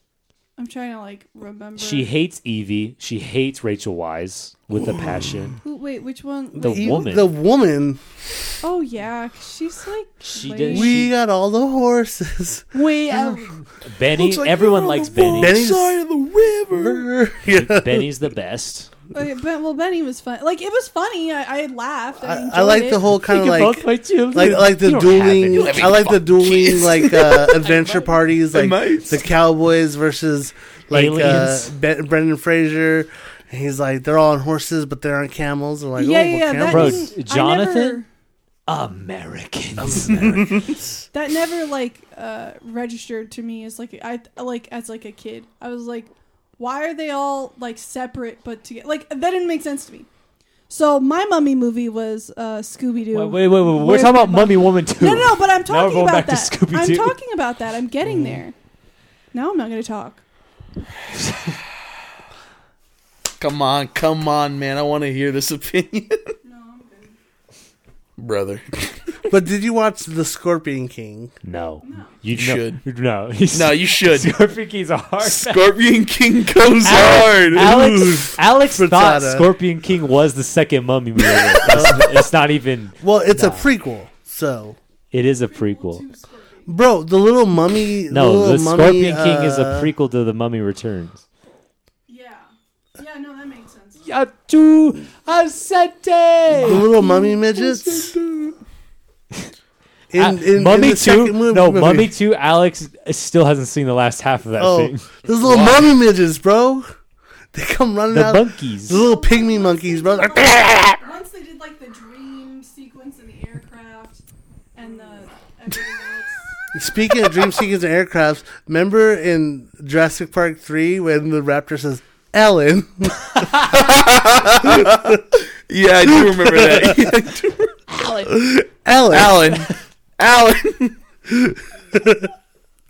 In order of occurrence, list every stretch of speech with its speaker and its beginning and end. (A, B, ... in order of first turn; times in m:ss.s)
0:00.6-0:02.1 A
0:01.8-0:05.6 B
0:05.6-0:07.0 A
0:06.6-0:08.0 C
0:06.6-0:07.3 B
0:08.6-0:11.0 A
0:10.2-0:11.1 B
0:10.7-0:12.7 C
0:12.7-0:13.5 A
0:13.1-0:15.6 B
0:14.1-0:17.0 D
0:15.4-0:16.0 C
0:16.7-0:18.1 C
0:17.5-0:18.9 B
0:19.1-0:23.0 A
0:22.2-0:37.1 C
0:23.2-0:26.0 B
0:25.5-0:27.6 D
0:27.6-0:28.2 B
0:28.5-0:29.2 D
0:30.9-0:31.7 B
0:36.0-0:38.1 A
0:36.7-0:38.0 B
0:38.7-0:40.5 B
0:39.8-0:40.8 C
0:40.1-0:40.8 D
0:41.1-0:50.1 A
0:50.7-0:58.6 A
0:53.1-0:57.2 B
0:58.0-0:58.4 C
0:59.3-1:00.2 A
1:03.4-1:06.3 D
1:06.4-1:07.1 A
1:08.2-1:09.1 D
1:09.3-1:11.3 C
1:11.4-1:15.7 B
1:11.8-1:12.1 A
1:12.3-1:12.8 D
1:13.5-1:14.3 D
1:15.2-1:17.8 D
1:16.8-1:23.7 B
1:17.6-1:19.5 C
1:21.7-1:22.1 C
1:23.0-1:24.8 C
1:25.1-1:26.0 B
1:25.5-1:26.7 A
1:26.7-1:29.9 C
1:28.1-1:31.2 B
1:32.1-1:34.0 A
1:34.0-1:36.9 B
1:36.6-1:38.1 C
1:36.7-1:37.5 A
1:37.9-1:38.5 B
1:40.1-1:42.1 C
1:40.2-1:45.1 B
1:44.6-1:46.9 C
1:45.3-1:45.9 D
1:47.5-1:51.0 C
1:48.1-1:49.0 B
1:48.9-1:54.2 A
1:54.8-1:56.8 A
1:56.7-2:05.2 C
2:03.4-2:03.8 B
2:03.7-2:07.8 D
2:06.0-2:07.1 C
2:07.9-2:08.3 B
2:08.3-2:09.7 C
2:09.1-2:11.0 D
2:11.3-2:12.3 C